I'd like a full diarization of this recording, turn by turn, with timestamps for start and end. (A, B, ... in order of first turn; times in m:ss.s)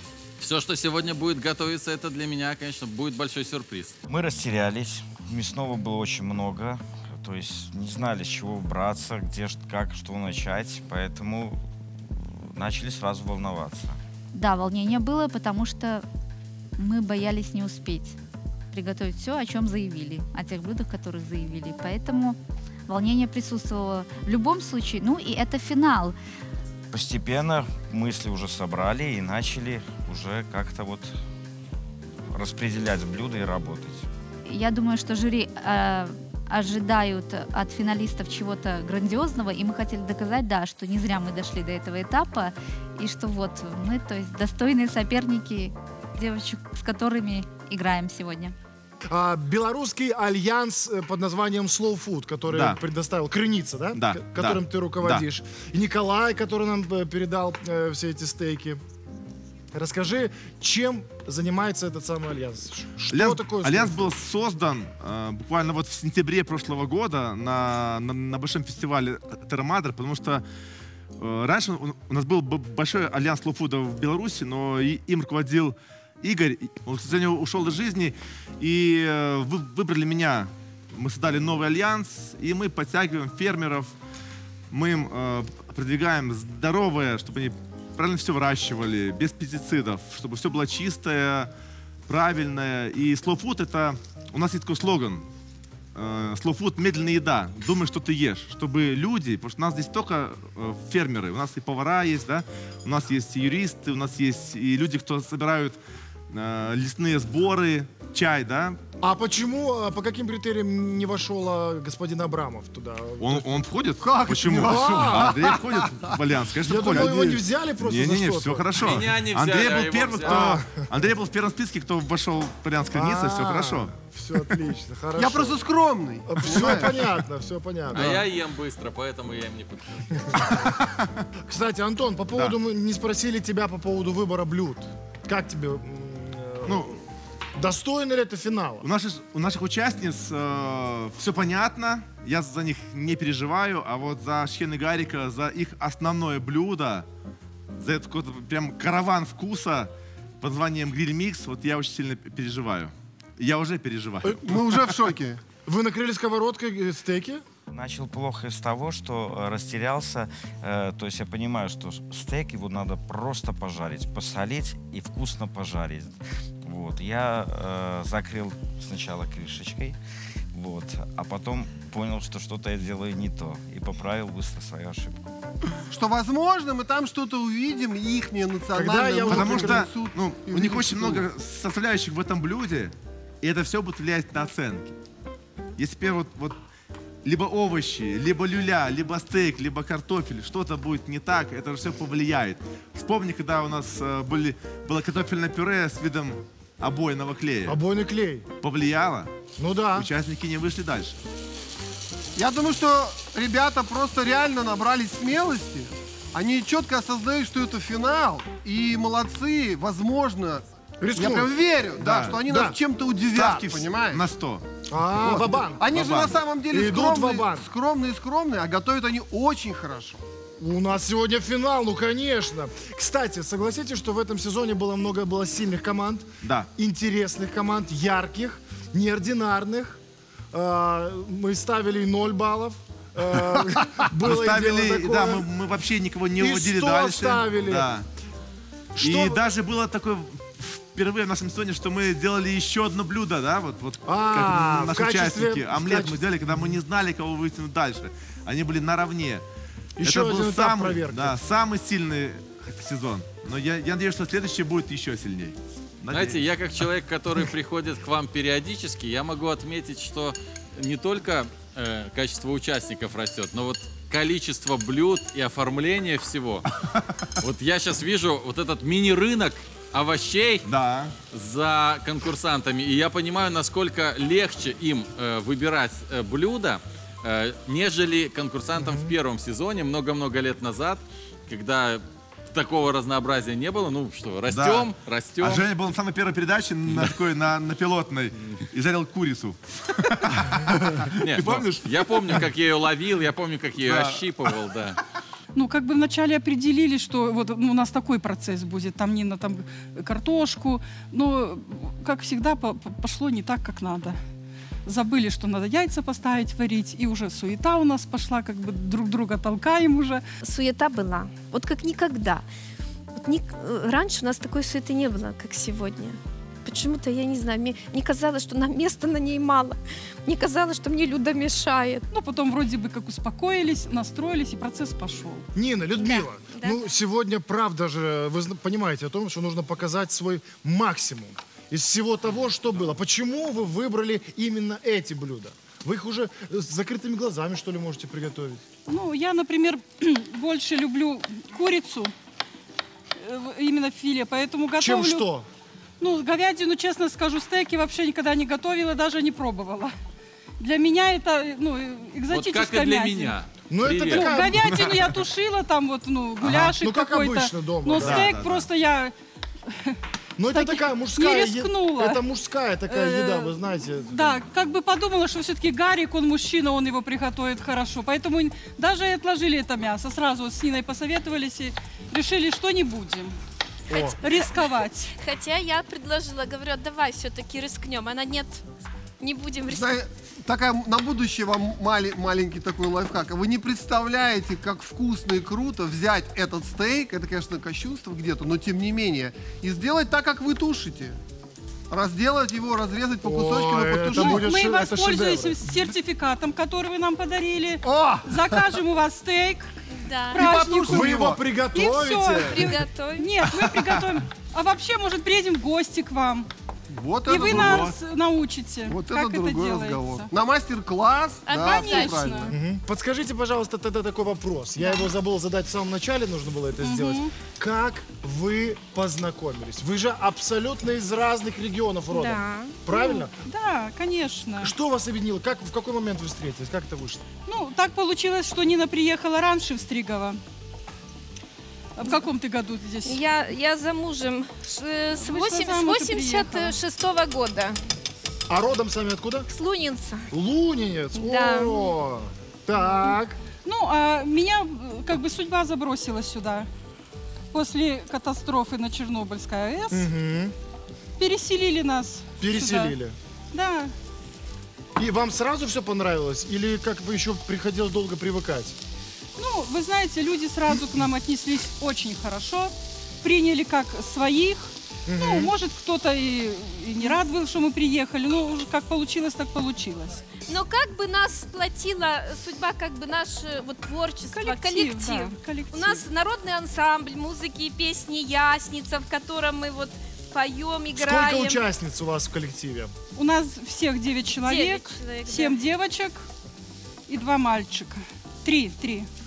0:00.4-0:03.9 A
0:04.1-0:14.0 B
0:14.3-0:16.0 C
0:16.8-0:18.2 C
0:18.7-0:26.2 C
0:26.9-0:31.2 B
0:32.3-0:34.0 B
0:34.4-0:48.5 C
0:49.1-0:58.8 D
0:52.5-0:52.8 E
0:53.9-0:55.2 E
0:59.7-1:04.1 D
1:03.1-1:10.4 E
1:11.2-1:23.9 E
1:24.7-1:31.5 E
1:32.1-1:35.2 E
1:35.9-1:45.8 E
1:46.3-1:48.8 E
1:49.0-1:53.6 D
1:53.2-2:03.9 E
1:54.0-1:56.2 F
1:54.5-1:55.5 D
1:56.6-1:58.9 D
1:56.7-1:57.4 F
1:58.8-2:00.6 A
2:00.2-2:00.8 D
2:02.9-2:05.6 D
2:05.2-2:07.0 F
2:06.3-2:08.2 D
2:07.9-2:10.2 A
2:10.4-2:11.2 E
2:11.5-2:17.0 D
2:16.6-2:16.9 E
2:17.6-2:18.8 D
2:18.8-2:27.0 E
2:27.8-2:34.9 E
2:34.4-2:35.4 F
2:35.6-2:37.4 D
2:37.7-2:50.0 B
2:50.5-2:55.3 B
2:55.9-3:01.3 F
2:58.7-2:59.8 D
2:59.3-3:04.9 E
3:05.8-3:06.6 E
3:07.2-3:17.8 E
3:17.7-3:18.5 D
3:18.6-3:19.3 E
3:19.6-3:20.1 D
3:19.9-3:21.1 E
3:22.4-3:30.6 F
3:31.0-3:31.5 D
3:31.1-3:34.2 F
3:32.0-3:32.4 E
3:32.3-3:32.8 D
3:33.3-3:34.6 E
3:33.3-3:33.7 D
3:34.9-3:35.9 D
3:35.2-3:40.2 F
3:35.9-3:36.4 E
3:36.7-3:37.7 D
3:40.6-3:50.0 D
3:46.4-3:46.7 E
3:50.5-3:55.4 D
3:54.2-3:58.0 E
3:56.4-3:57.9 D
3:59.0-3:59.4 D
3:59.0-4:09.4 E
4:04.1-4:06.6 D
4:10.0-4:11.4 D
4:10.0-4:16.9 E
4:16.1-4:26.6 A
4:27.4-4:30.6 A
4:30.6-4:31.1 E
4:31.3-4:45.7 A
4:38.7-4:39.1 D
4:44.5-4:52.5 E
4:46.9-4:47.2 A
4:51.2-4:55.0 A
4:53.8-4:54.6 E
4:55.5-5:04.2 G
5:04.8-5:10.2 G
5:10.4-5:12.5 H
5:13.2-5:22.1 H
5:22.1-5:25.4 G
5:25.5-5:38.6 D
5:26.0-5:26.8 H
5:38.9-5:42.1 G
5:43.2-5:45.3 G
5:44.8-5:45.4 D
5:46.0-5:49.9 G
5:50.6-5:53.4 G
5:52.3-5:54.3 A
5:53.7-5:54.7 D
5:54.0-5:59.1 G
5:56.5-5:58.3 D
5:58.0-5:58.7 E
5:59.7-6:00.0 G
6:00.4-6:04.4 D
6:00.5-6:02.2 G
6:02.9-6:03.5 G
6:04.1-6:13.4 G
6:13.9-6:18.6 H
6:13.9-6:14.2 D
6:14.2-6:15.1 G
6:19.2-6:20.0 H
6:19.7-6:31.2 F
6:31.9-6:34.5 F
6:33.2-6:35.6 D
6:34.1-6:39.7 G
6:37.8-6:38.7 F
6:39.9-6:40.4 H
6:40.3-6:46.5 G
6:40.3-6:41.4 F
6:40.9-6:42.8 D
6:42.5-6:43.3 H
6:46.9-6:47.9 F
6:47.2-6:50.3 G
6:47.3-6:48.0 E
6:48.8-6:52.5 F
6:51.4-6:52.5 H
6:51.6-6:52.5 G
6:52.5-7:03.3 D
6:56.8-6:57.3 G
7:02.1-7:03.2 H
7:03.4-7:04.7 G
7:04.6-7:07.2 D
7:07.5-7:10.4 G
7:12.0-7:13.2 G
7:12.0-7:12.3 H
7:13.0-7:17.8 H
7:15.2-7:16.8 G
7:18.5-7:19.5 D
7:19.5-7:20.3 H
7:20.3-7:23.4 D
7:21.1-7:21.9 H
7:23.6-7:26.7 G
7:27.5-7:30.0 G
7:29.9-7:30.5 D
7:31.2-7:33.0 G
7:32.4-7:33.2 D
7:33.5-7:33.9 G
7:35.0-7:38.8 D
7:39.4-7:50.2 G
7:45.1-7:45.5 D
7:50.5-8:01.6 H
7:54.3-7:56.0 G
8:00.9-8:02.9 D
8:03.2-8:06.2 G
8:04.4-8:05.6 H
8:07.1-8:09.1 G